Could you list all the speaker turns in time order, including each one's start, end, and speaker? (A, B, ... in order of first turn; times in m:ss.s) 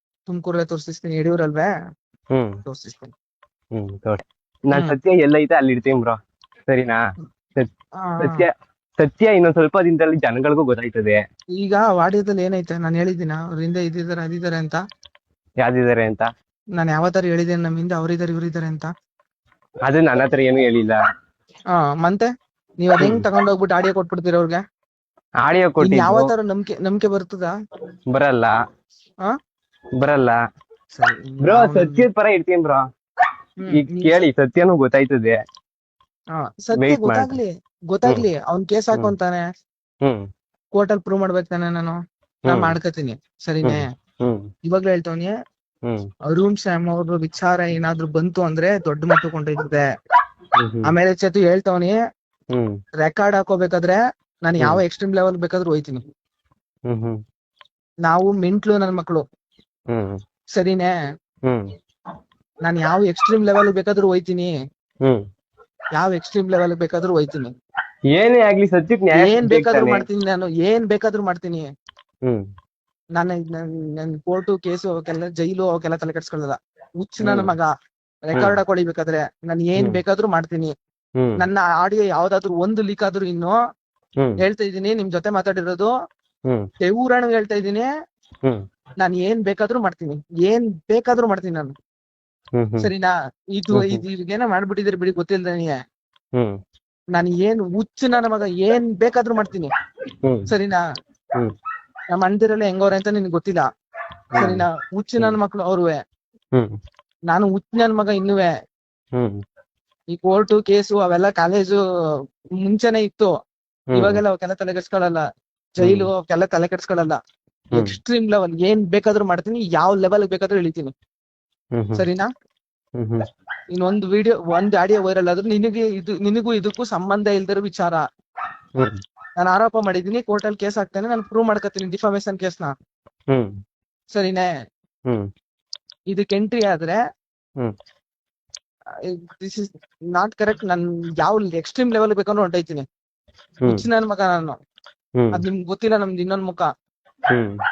0:00.3-0:01.7 A
0:02.6-0:03.1 A
0:03.7-0:06.2 B
0:06.7-0:07.0 B
0:07.6-0:11.2 B
0:08.0-0:08.4 A
0:11.6-0:14.8 A
0:15.6-0:16.3 B
0:16.8-0:18.9 A
0:19.9-0:21.0 B
0:21.7-0:22.3 A
0:22.8-0:24.6 A
0:23.0-0:23.2 B
0:25.4-0:26.3 B
0:25.8-0:27.5 A
0:28.1-0:28.5 B
0:30.0-0:30.4 B
0:30.9-0:32.0 A
0:31.4-0:32.8 B
0:33.6-0:34.2 A
0:33.7-0:35.4 B
0:36.3-0:39.4 A
0:36.7-0:37.4 B
0:40.7-0:42.0 A
0:42.5-0:42.7 B
0:42.5-0:43.9 A
0:43.6-0:44.4 B
0:44.7-0:45.3 A
0:46.3-0:49.8 A
0:50.6-0:50.9 B
0:50.8-0:52.0 A
0:53.0-0:56.0 A
0:56.9-0:57.2 B
0:58.0-0:59.2 A
0:59.9-1:00.2 B
1:00.5-1:00.9 A
1:02.6-1:04.5 A
1:05.9-1:07.5 A
1:08.1-1:10.0 B
1:09.1-1:11.6 A
1:13.2-1:17.7 A
1:17.2-1:17.5 B
1:18.3-1:20.7 A
1:21.4-1:23.6 A
1:24.4-1:25.9 A
1:26.8-1:27.9 A
1:29.0-1:31.7 A
1:32.6-1:32.9 B
1:32.8-1:35.7 A
1:33.7-1:34.0 B
1:37.1-1:39.7 A
1:40.2-1:40.5 B
1:40.5-1:40.8 A
1:42.1-1:43.6 A
1:44.3-1:44.6 B
1:44.4-1:46.0 A
1:47.3-1:48.5 A
1:50.1-1:51.8 A
1:52.6-1:53.3 A
1:53.9-1:54.2 B
1:53.9-1:55.2 A
1:55.8-1:57.2 A
1:55.8-1:56.1 B
1:57.7-1:58.0 B
1:57.7-2:00.9 A
2:01.7-2:02.0 B
2:02.0-2:02.3 A
2:03.0-2:03.2 B
2:03.7-2:08.0 A
2:09.4-2:12.7 A
2:14.1-2:14.4 A
2:16.1-2:17.0 A
2:19.3-2:22.8 A
2:23.6-2:24.6 A
2:25.2-2:25.4 B
2:25.3-2:26.7 A